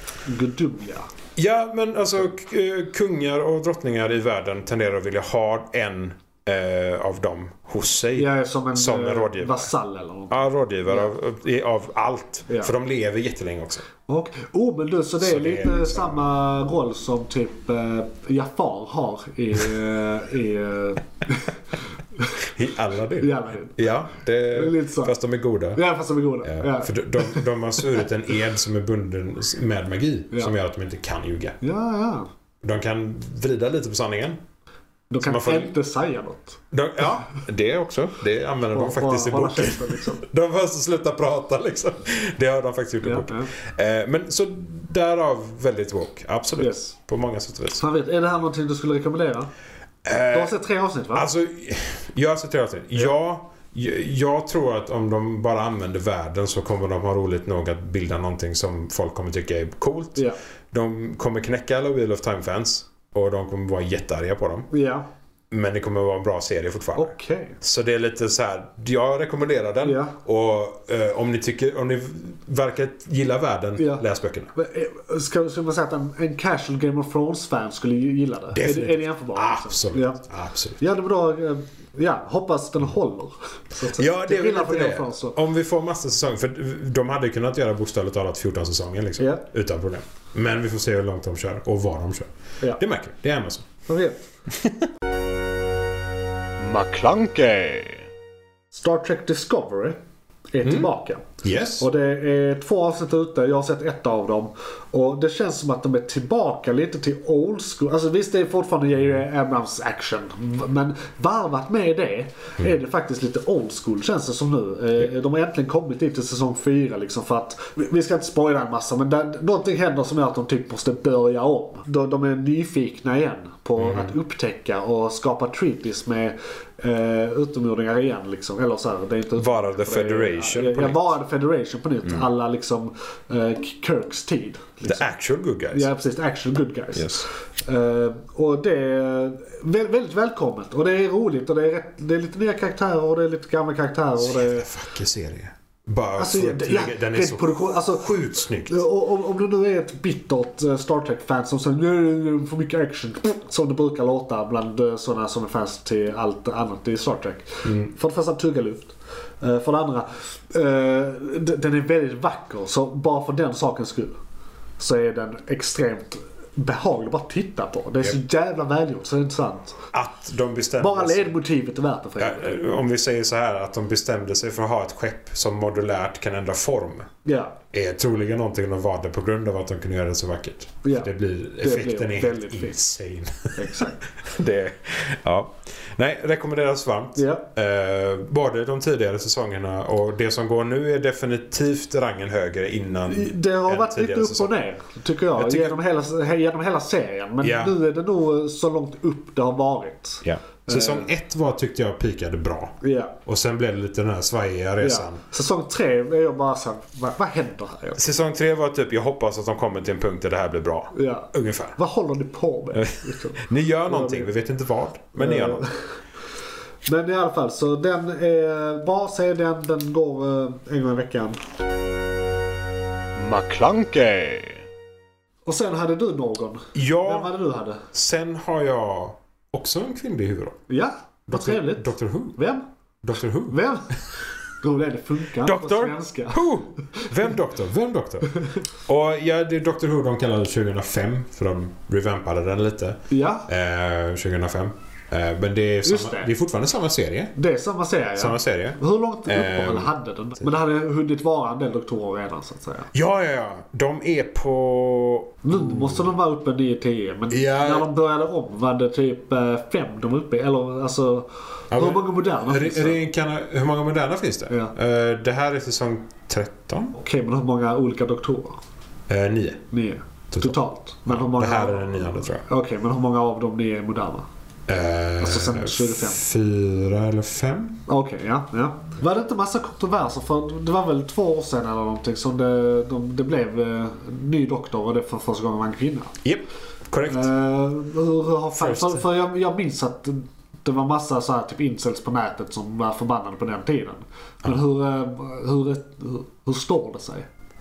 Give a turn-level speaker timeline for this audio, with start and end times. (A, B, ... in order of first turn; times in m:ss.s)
0:00.2-0:01.1 A
0:01.4-0:09.7 B
0:08.2-0:11.1 A
0:10.3-0:13.8 B
0:14.0-0:21.6 A
0:15.2-0:16.2 B
0:22.4-0:25.8 B
0:23.2-0:23.8 A
0:24.5-0:25.2 A
0:25.7-0:27.5 A
0:26.4-0:31.6 B
0:31.6-0:32.3 A
0:32.6-0:34.4 B
0:35.1-0:36.6 A
0:35.2-0:35.7 B
0:36.7-0:47.8 B
0:38.7-0:40.2 A
0:43.0-0:43.5 A
0:46.6-0:46.9 A
0:47.8-0:49.5 A
0:50.0-0:50.5 B
0:50.3-0:51.3 A
0:51.1-1:04.7 B
1:04.7-1:05.0 A
1:05.5-1:14.5 B
1:06.9-1:07.6 A
1:09.8-1:10.1 A
1:13.8-1:20.2 A
1:18.5-1:20.8 B
1:20.8-1:25.4 A
1:23.8-1:33.7 B
1:29.2-1:29.4 A
1:33.9-1:34.2 A
1:34.5-1:34.8 B
1:36.6-1:38.1 C
1:38.7-1:40.0 A
1:40.5-1:41.3 A
1:40.6-1:40.9 B
1:41.4-1:41.9 B
1:41.8-2:15.1 A
2:03.8-2:04.1 B
2:09.4-2:11.1 B
2:14.8-2:15.9 B
2:15.7-2:24.7 A
2:16.9-2:17.3 B
2:24.2-2:28.8 B
2:26.2-2:44.2 A
2:37.6-2:37.9 B
2:44.8-2:49.8 A
2:49.9-2:51.3 B
2:50.8-2:52.6 A
2:52.2-2:57.1 B
2:57.2-2:57.6 A
2:57.7-3:14.5 B
3:00.8-3:02.8 A
3:03.5-3:04.0 A
3:07.1-3:07.4 A
3:13.1-3:21.1 A
3:15.4-3:15.8 B
3:17.4-3:17.7 B
3:20.2-3:25.2 B
3:22.8-3:23.1 A
3:24.8-3:28.0 A
3:28.0-3:31.8 B
3:30.9-3:34.3 A
3:32.7-3:35.6 B
3:35.2-3:35.9 A
3:36.8-3:41.4 A
3:43.2-3:44.6 C
3:45.4-3:47.8 A
3:46.7-3:47.3 B
3:47.9-3:50.6 B
3:50.7-3:52.6 A
3:51.3-3:52.4 B
3:53.0-3:53.6 B
3:53.5-3:57.1 A
3:55.4-3:58.3 B
3:58.8-4:07.3 B
4:03.1-4:03.5 A
4:05.8-4:06.3 A
4:07.4-4:12.9 A
4:08.2-4:09.9 B
4:12.9-4:16.1 B
4:15.4-4:23.0 A
4:17.3-4:17.9 B
4:21.7-4:26.9 B
4:24.5-4:24.7 A
4:26.9-4:28.6 A
4:29.1-4:29.6 B
4:29.7-4:34.2 A
4:30.3-4:32.4 B
4:34.7-4:37.8 B
4:35.2-4:36.2 A
4:37.9-4:46.1 A
4:46.2-4:47.3 B
4:47.0-4:57.3 A
4:48.5-4:49.0 B